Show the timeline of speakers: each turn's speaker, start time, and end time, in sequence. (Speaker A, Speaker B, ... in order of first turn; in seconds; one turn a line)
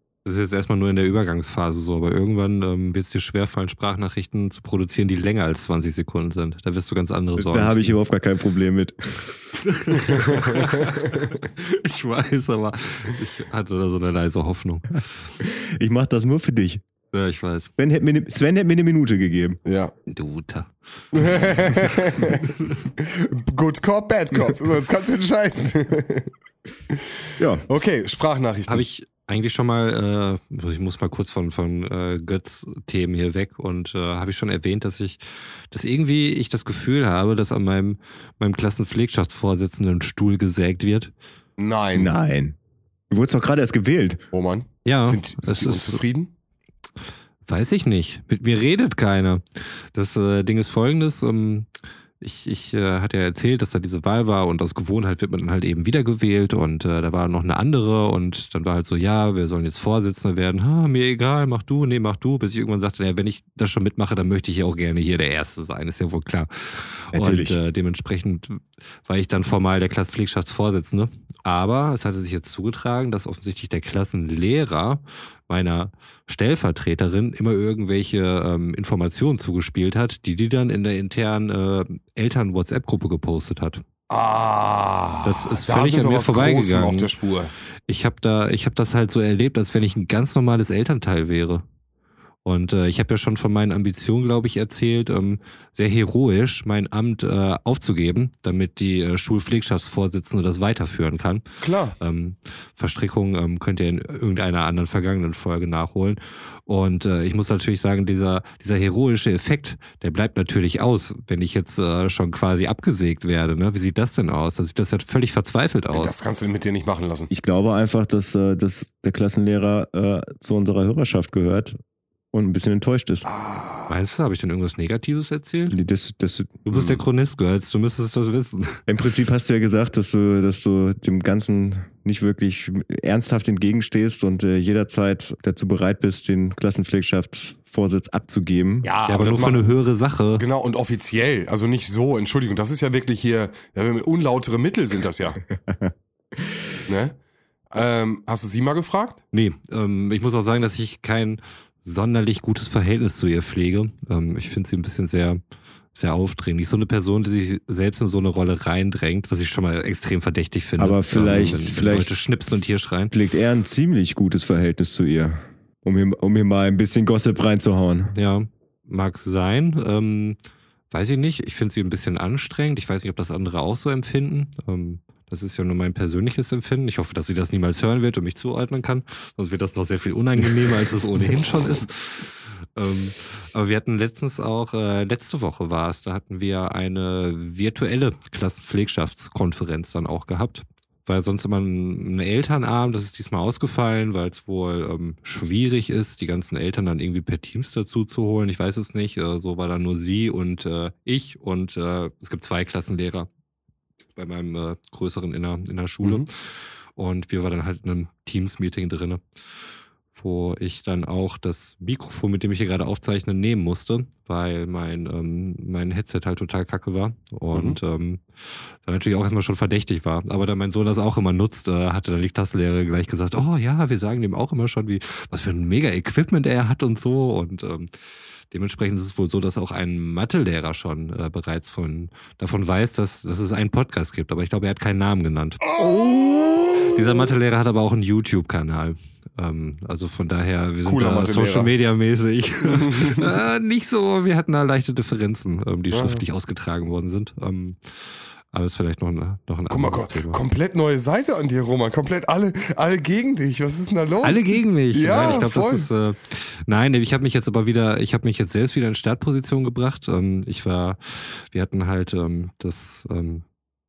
Speaker A: 0.2-8.0
Speaker B: 7.4-9.3
Speaker A: 9.6-15.1
Speaker B: 15.4-16.8
Speaker A: 17.1-17.7
Speaker B: 17.8-19.6
Speaker C: 19.7-19.9
Speaker A: 20.1-21.4
Speaker C: 21.1-26.3
Speaker B: 27.4-27.6
Speaker C: 27.7-28.8
Speaker A: 28.7-41.1
Speaker C: 41.6-42.1
Speaker B: 41.9-42.6
Speaker B: 43.1-44.2
Speaker C: 44.3-46.3
Speaker A: 44.9-46.0
Speaker A: 47.5-51.7
Speaker A: 52.2-83.8
Speaker B: 67.1-67.6
Speaker C: 84.1-87.5
Speaker A: 85.2-87.1
Speaker A: 87.9-91.6
Speaker A: 92.5-101.4
Speaker C: 101.6-102.0
Speaker A: 102.0-116.2
Speaker C: 115.9-117.3
Speaker B: 117.3-121.8
Speaker B: 122.3-123.3
Speaker C: 123.3-124.0
Speaker A: 123.9-125.8
Speaker B: 125.7-126.6
Speaker A: 126.7-128.8
Speaker C: 126.7-127.0
Speaker B: 128.9-138.9
Speaker C: 138.8-139.6
Speaker A: 139.1-140.4
Speaker C: 140.4-145.4
Speaker B: 145.5-146.6
Speaker C: 146.9-147.2
Speaker C: 147.7-149.2
Speaker A: 149.3-155.4
Speaker A: 155.9-163.1
Speaker B: 160.8-162.2
Speaker B: 163.1-168.2
Speaker A: 168.2-170.4
Speaker A: 170.9-203.3
Speaker A: 204.2-209.2
Speaker C: 206.0-206.3
Speaker A: 210.1-227.9
Speaker C: 217.5-217.8
Speaker A: 228.5-235.7
Speaker C: 235.7-237.0
Speaker A: 236.9-247.8
Speaker C: 240.8-241.7
Speaker C: 242.7-243.3
Speaker C: 245.9-246.2
Speaker A: 248.5-250.4
Speaker C: 249.7-255.9
Speaker A: 254.2-263.4